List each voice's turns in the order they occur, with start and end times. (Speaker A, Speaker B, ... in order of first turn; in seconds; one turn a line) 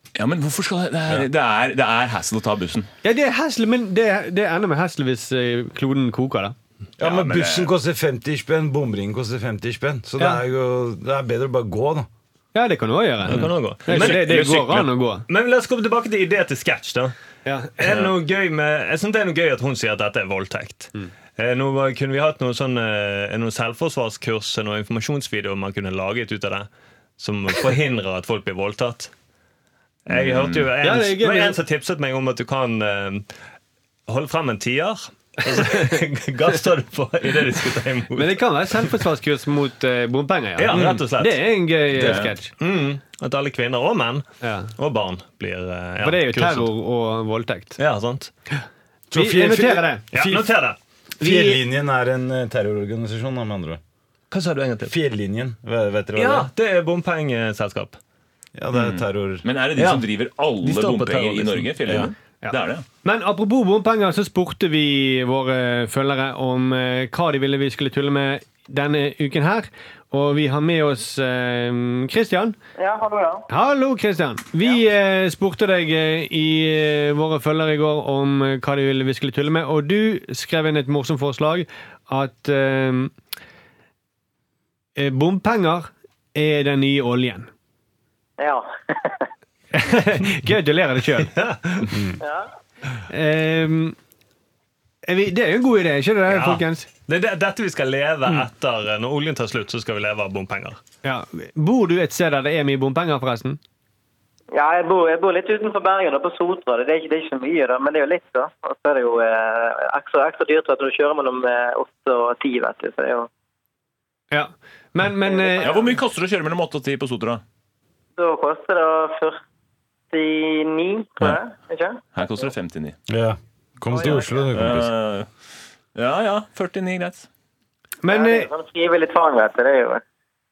Speaker A: 0.1-2.9
Speaker B: 3.0-6.5
Speaker C: 7.0-12.1
Speaker A: 7.0-7.7
Speaker B: 12.5-15.2
Speaker D: 13.2-17.1
Speaker A: 13.3-14.2
Speaker B: 17.4-18.1
Speaker D: 17.8-29.1
Speaker D: 30.1-33.3
Speaker A: 30.1-30.7
Speaker B: 30.8-31.6
Speaker D: 34.1-38.4
Speaker B: 38.1-42.5
Speaker D: 40.6-41.5
Speaker C: 40.7-41.0
Speaker A: 42.0-42.3
Speaker D: 42.6-44.2
Speaker B: 44.4-44.7
Speaker D: 44.8-46.7
Speaker B: 46.0-47.8
Speaker D: 47.8-48.3
Speaker C: 49.1-50.5
Speaker B: 49.1-50.0
Speaker D: 50.1-50.8
Speaker B: 51.2-51.6
Speaker C: 51.2-53.8
Speaker D: 54.3-54.9
Speaker C: 54.8-56.5
Speaker D: 56.1-58.0
Speaker C: 58.6-59.5
Speaker A: 58.7-62.9
Speaker D: 59.8-60.0
Speaker D: 60.6-62.0
Speaker B: 62.4-72.5
Speaker E: 72.8-73.5
Speaker B: 73.5-83.1
Speaker B: 85.0-87.5
Speaker E: 88.4-89.3
Speaker B: 89.7-91.3
Speaker D: 91.2-92.0
Speaker E: 92.2-92.5
Speaker B: 93.1-94.0
Speaker B: 95.0-96.9
Speaker D: 96.3-100.8
Speaker B: 101.0-103.6
Speaker E: 104.5-113.3
Speaker B: 114.3-115.8
Speaker E: 115.2-115.9
Speaker A: 115.6-117.4
Speaker E: 118.2-119.4
Speaker E: 120.1-122.5
Speaker A: 122.1-123.0
Speaker C: 123.1-124.9
Speaker E: 123.9-124.5
Speaker A: 124.5-125.3
Speaker A: 126.0-127.3
Speaker B: 128.0-128.5
Speaker E: 128.1-130.0